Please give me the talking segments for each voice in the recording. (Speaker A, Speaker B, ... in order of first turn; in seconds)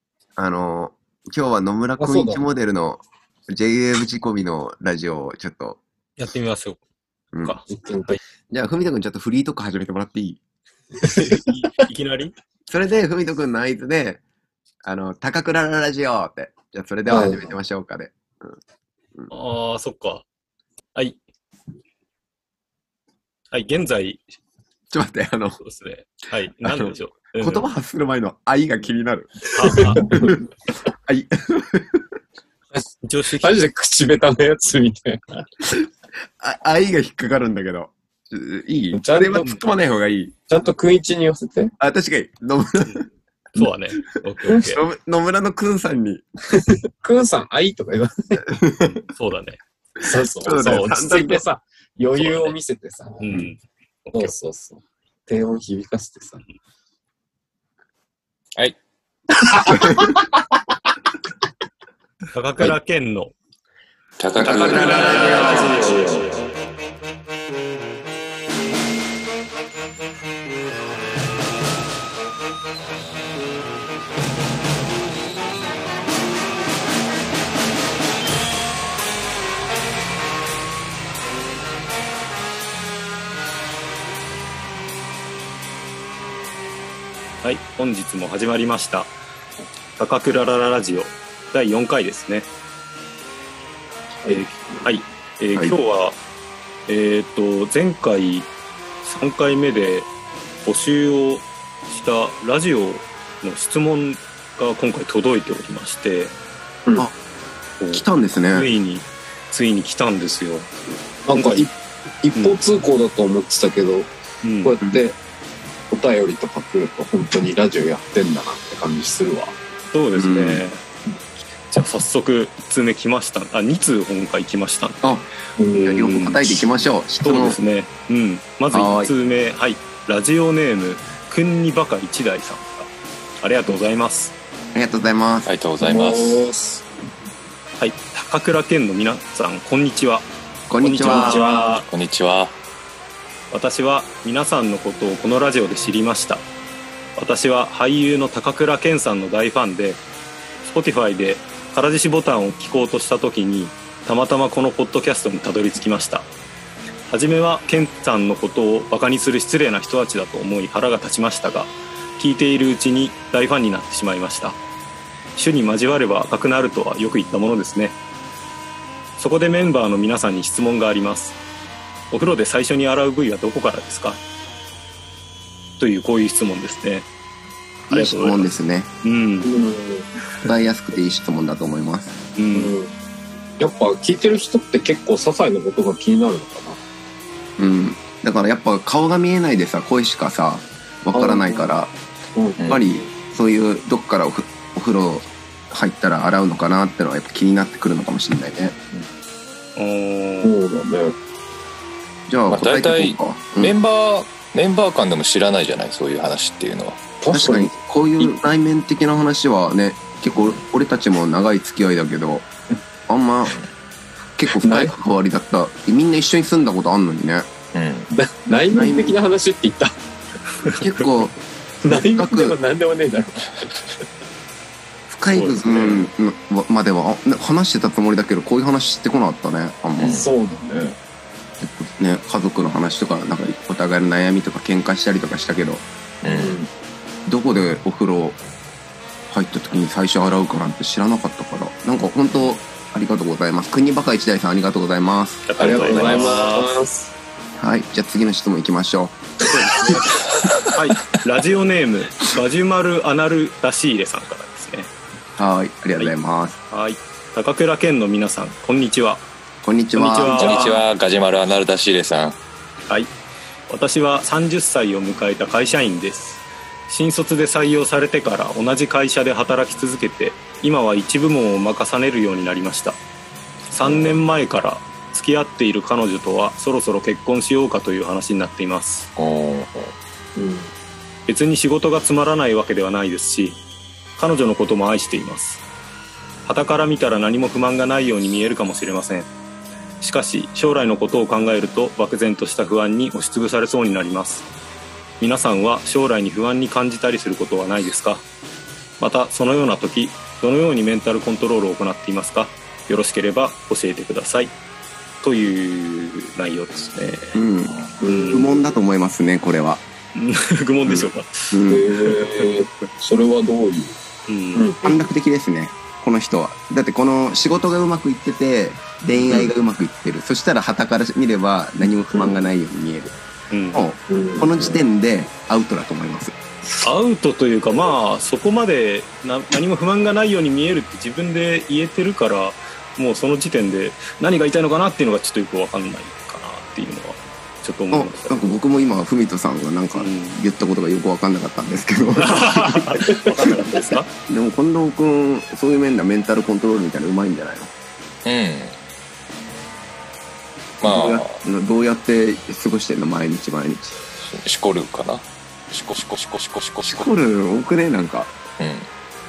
Speaker A: 0.3-5.8, 8.5-10.4, 12.7-14.2, 14.8-18.5, 24.9-25.6, 26.6-30.4, 31.1-32.0, 36.4-40.4, 41.8-43.0, 44.6-46.2, 48.6-48.9, 50.4-51.4, 64.5-65.4, 107.9-108.7, 120.2-120.6, 125.8-127.6, 128.7-129.1, 134.7-135.5, 140.7-141.4, 177.9-178.9, 180.4-182.1, 187.6-191.9, 192.7-198.7, 202.3-203.7, 207.3-212.5, 213.1-213.6, 214.4-217.5, 218.7-219.2, 220.8-221.4, 221.9-222.6, 225.1-230.2, 231.6-235.8, 237.3-238.4, 239.3-246.3, 247.6-249.2, 255.4-256.6, 259.6-260.6, 307.3-307.8, 308.3-309.8, 310.9-311.9, 314.8-323.1, 323.7-326.4, 337.9-343.0, 344.3-347.7, 350.8-354.0, 356.8-358.3
Speaker B: 2.0-2.5, 7.7-8.2, 17.1-17.4, 29.6-30.4, 33.4-35.4, 38.9-39.5, 40.5-41.7, 47.0-48.4, 50.0-53.4, 54.1-56.4, 59.8-60.1, 65.8-66.2, 94.2-94.9, 111.3-114.1, 114.6-115.2, 115.9-119.6, 125.6-125.9, 135.8-136.8, 141.0-141.7, 179.4-180.1, 182.5-182.9, 183.6-186.8, 191.1-191.7, 192.3-192.6, 200.4-201.2, 207.2-208.3, 214.5-214.9, 218.1-219.9, 221.8-223.9, 230.0-230.9, 236.3-236.7, 245.6-247.1, 273.8-274.2, 280.4-280.7, 308.0-308.7, 311.7-314.0, 314.5-315.1, 322.1-322.4, 324.1-324.8
Speaker C: 6.2-6.8, 7.4-8.1, 11.1-12.3, 19.3-20.2, 23.5-24.2, 25.6-27.7, 29.5-30.1, 33.0-33.6, 43.5-44.8, 49.1-49.6, 52.1-52.5, 53.2-54.3, 62.3-63.3, 64.3-66.3, 87.4-89.1, 90.0-92.5, 94.3-96.2, 96.9-98.5, 99.0-100.1, 100.6-106.3, 107.8-110.7, 111.3-111.7, 112.3-112.6, 114.4-114.8, 119.9-120.8, 121.7-126.7, 127.2-132.9, 133.4-134.3, 137.8-140.3, 140.8-141.9, 143.5-146.5, 147.2-150.0, 150.6-156.3, 157.1-164.6, 165.3-167.9, 169.2-171.4, 172.1-174.2, 175.8-177.1, 177.9-178.5, 179.0-179.5, 182.3-182.7, 199.8-200.5, 220.7-221.3, 225.3-226.1, 245.4-246.7, 249.5-250.2, 250.7-254.9, 256.7-259.2, 259.9-260.8, 263.7-273.0, 273.7-279.1, 281.3-283.6, 284.2-285.6, 286.4-289.3, 290.0-294.4, 295.2-298.2, 299.0-304.5, 305.2-307.4, 308.1-308.5, 310.1-311.6, 312.2-312.5, 314.3-314.8, 323.5-323.9, 326.8-338.6, 339.9-340.4, 342.2-344.1
Speaker D: 64.2-65.8, 135.4-136.5, 141.9-142.5, 202.5-207.0, 217.7-218.1, 230.0-230.2, 236.2-236.6, 260.3-262.4, 279.1-279.9, 348.2-348.8, 350.8-351.4, 354.2-357.1, 358.6-358.9